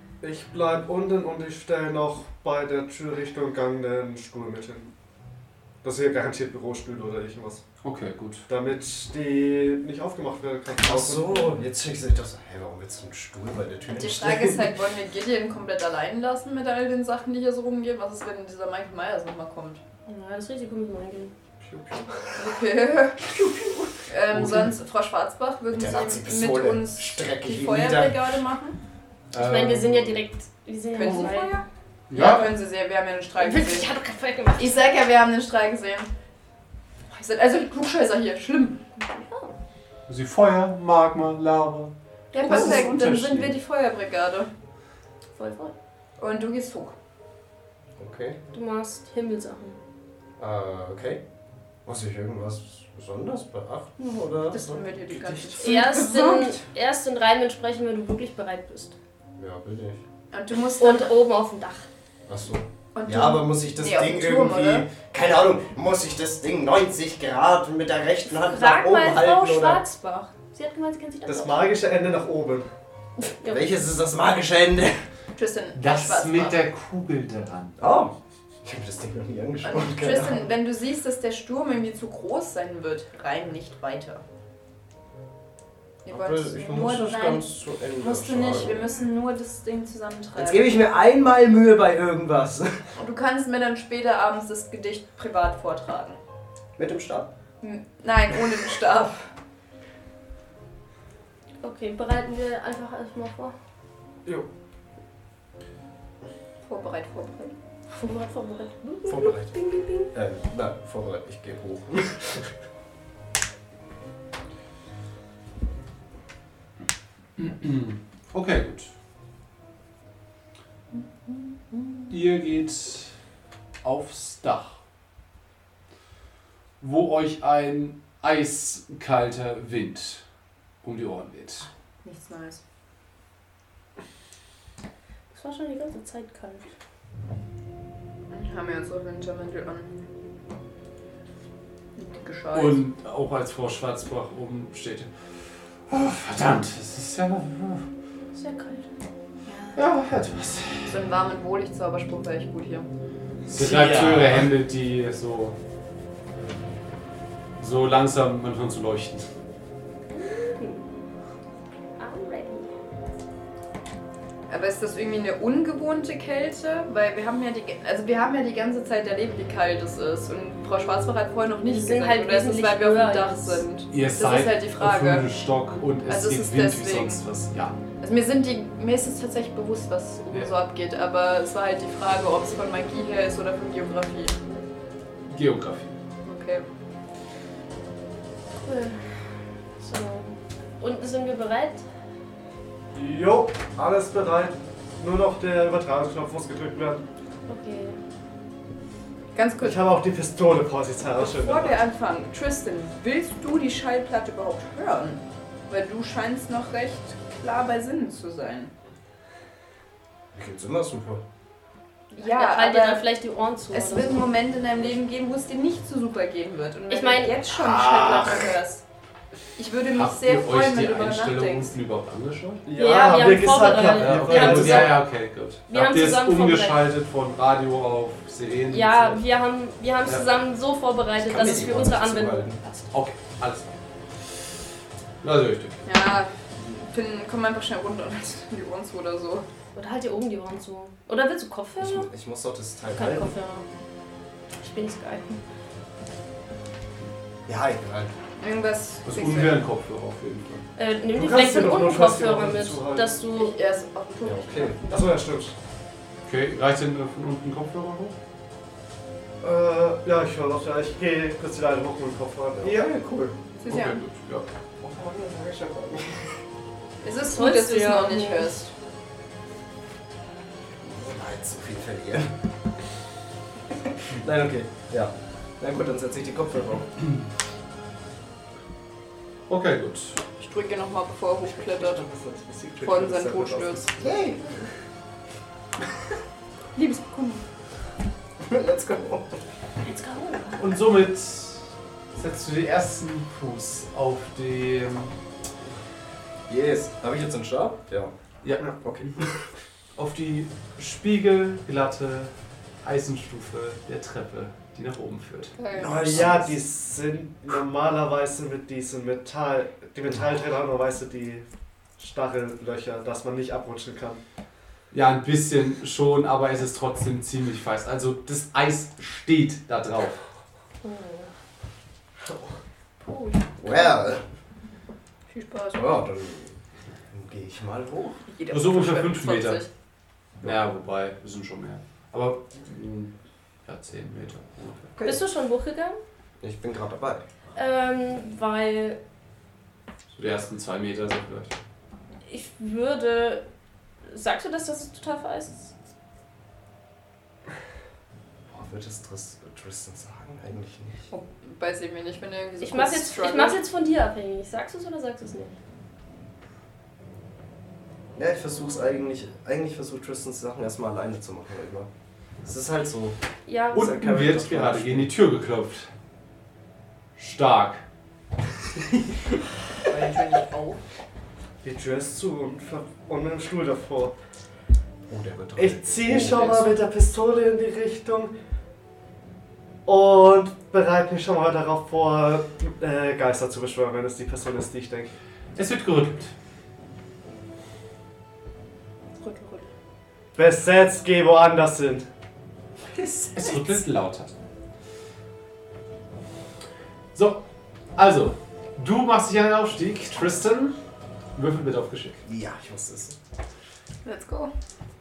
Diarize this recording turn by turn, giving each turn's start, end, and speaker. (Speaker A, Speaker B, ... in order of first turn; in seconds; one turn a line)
Speaker A: 0.2-4.9
Speaker A: 5.8-7.6
Speaker B: 7.8-8.5
Speaker A: 8.5-11.6
Speaker C: 10.8-14.7
Speaker D: 13.9-19.8
Speaker E: 20.1-21.3
Speaker C: 21.7-22.0
Speaker D: 22.3-23.4
Speaker D: 23.9-28.8
Speaker B: 24.3-24.7
Speaker C: 25.7-28.4
Speaker B: 29.3-30.2
Speaker E: 29.3-31.6
Speaker D: 30.9-33.9
Speaker B: 32.1-32.5
Speaker E: 33.4-34.8
Speaker D: 34.6-36.1
Speaker D: 37.1-38.8
Speaker E: 39.0-39.5
Speaker B: 40.1-43.5
Speaker D: 42.3-44.5
Speaker E: 42.4-43.0
Speaker E: 45.4-45.7
Speaker D: 46.2-46.9
Speaker C: 48.0-48.4
Speaker E: 48.5-49.8
Speaker C: 50.4-51.2
Speaker C: 51.8-54.8
Speaker D: 54.5-56.6
Speaker E: 55.6-58.9
Speaker C: 59.4-60.0
Speaker D: 60.3-61.1
Speaker E: 60.8-61.9
Speaker C: 62.3-69.8
Speaker D: 62.9-64.9
Speaker E: 68.3-71.7
Speaker A: 71.2-72.7
Speaker E: 73.4-73.6
Speaker C: 73.4-75.0
Speaker D: 75.3-76.6
Speaker B: 75.7-77.8
Speaker C: 77.8-80.5
Speaker D: 79.6-84.2
Speaker D: 86.0-87.4
Speaker C: 86.1-88.9
Speaker D: 88.0-90.7
Speaker C: 90.3-92.8
Speaker D: 93.0-96.2
Speaker C: 96.8-97.3
Speaker D: 97.6-99.3
Speaker E: 101.6-103.5
Speaker D: 106.7-107.5
Speaker E: 107.9-110.1
Speaker C: 109.0-109.5
Speaker C: 110.1-112.5
Speaker B: 117.4-118.9
Speaker D: 121.3-122.0
Speaker B: 122.1-123.1
Speaker B: 123.8-124.8
Speaker B: 126.8-130.2
Speaker B: 130.8-131.7
Speaker D: 132.0-132.6
Speaker E: 135.3-136.7
Speaker D: 138.3-139.9
Speaker D: 141.9-142.8
Speaker B: 142.5-145.1
Speaker B: 145.9-147.8
Speaker E: 148.3-148.9
Speaker D: 149.5-149.8
Speaker B: 149.7-150.9
Speaker D: 150.9-152.9
Speaker B: 153.5-155.5
Speaker C: 153.6-154.4
Speaker B: 157.6-159.2
Speaker E: 160.1-160.8
Speaker E: 162.0-162.7
Speaker D: 164.5-175.3
Speaker E: 171.7-173.6
Speaker B: 173.9-177.8
Speaker D: 176.1-177.2
Speaker D: 178.0-184.4
Speaker B: 185.3-185.9
Speaker D: 186.2-186.7
Speaker E: 188.6-191.8
Speaker A: 192.9-197.0
Speaker E: 197.5-198.0
Speaker D: 199.3-199.9
Speaker A: 199.6-201.8
Speaker D: 201.1-208.7
Speaker C: 210.3-211.2
Speaker D: 212.1-213.0
Speaker E: 212.2-214.3
Speaker D: 213.7-218.8
Speaker E: 216.9-218.4
Speaker B: 217.5-218.2
Speaker D: 219.6-221.7
Speaker B: 219.9-222.6
Speaker A: 222.7-224.9
Speaker E: 222.7-225.0
Speaker B: 223.9-229.2
Speaker E: 225.7-226.9
Speaker E: 228.7-232.9
Speaker C: 231.2-232.6
Speaker B: 232.9-233.7
Speaker B: 235.2-235.8
Speaker D: 235.8-239.4
Speaker E: 239.7-242.1
Speaker C: 241.8-243.3
Speaker E: 242.9-243.7
Speaker E: 244.6-245.4
Speaker C: 247.5-248.1
Speaker D: 248.4-249.6
Speaker B: 249.0-250.6
Speaker E: 250.8-253.5
Speaker A: 251.1-253.1
Speaker D: 253.3-255.2
Speaker C: 254.2-254.8
Speaker A: 254.9-255.5
Speaker B: 256.2-258.1
Speaker A: 259.4-262.9
Speaker C: 262.6-263.4
Speaker D: 263.6-264.0
Speaker B: 263.6-264.4
Speaker C: 264.8-266.2
Speaker D: 267.0-268.7
Speaker E: 267.3-268.5
Speaker C: 270.8-272.3
Speaker C: 274.1-276.9
Speaker B: 279.5-280.2
Speaker D: 280.4-282.0
Speaker A: 281.5-284.3
Speaker D: 282.8-283.9
Speaker C: 284.0-284.6
Speaker D: 286.7-287.4
Speaker C: 288.4-289.4
Speaker E: 289.8-290.6
Speaker B: 290.6-295.1
Speaker C: 296.5-298.1
Speaker B: 298.4-299.1
Speaker C: 298.7-299.3
Speaker B: 299.9-302.3
Speaker B: 302.8-305.5
Speaker D: 305.6-306.3
Speaker C: 305.7-306.6
Speaker A: 305.8-311.4
Speaker A: 312.0-314.2
Speaker B: 314.9-320.2
Speaker E: 320.8-321.3
Speaker D: 323.0-324.0
Speaker C: 323.6-324.2
Speaker D: 325.3-326.0
Speaker C: 325.7-326.5
Speaker C: 327.1-328.2
Speaker D: 328.3-329.7
Speaker B: 328.5-329.6
Speaker B: 330.4-333.1
Speaker B: 333.6-334.9
Speaker C: 334.9-335.2
Speaker E: 335.0-336.0
Speaker C: 336.4-337.2
Speaker E: 337.5-339.0
Speaker B: 340.1-341.5
Speaker E: 342.3-343.4
Speaker E: 344.1-345.7
Speaker C: 348.5-351.1
Speaker D: 351.1-353.6
Speaker E: 352.6-355.5
Speaker C: 358.1-361.9
Speaker C: 362.4-363.1
Speaker E: 363.5-363.9
Speaker C: 363.7-365.1
Speaker B: 363.7-365.9
Speaker B: 367.1-367.8
Speaker D: 369.9-370.8
Speaker A: 371.6-374.1
Speaker C: 375.1-376.7
Speaker A: 375.6-378.3
Speaker A: 379.9-385.1
Speaker B: 385.6-386.3
Speaker D: 389.2-389.7
Speaker A: 390.4-392.1
Speaker B: 392.9-394.3
Speaker B: 397.1-397.4
Speaker B: 397.9-400.8
Speaker B: 401.4-402.2
Speaker C: 402.2-403.1
Speaker D: 404.0-404.5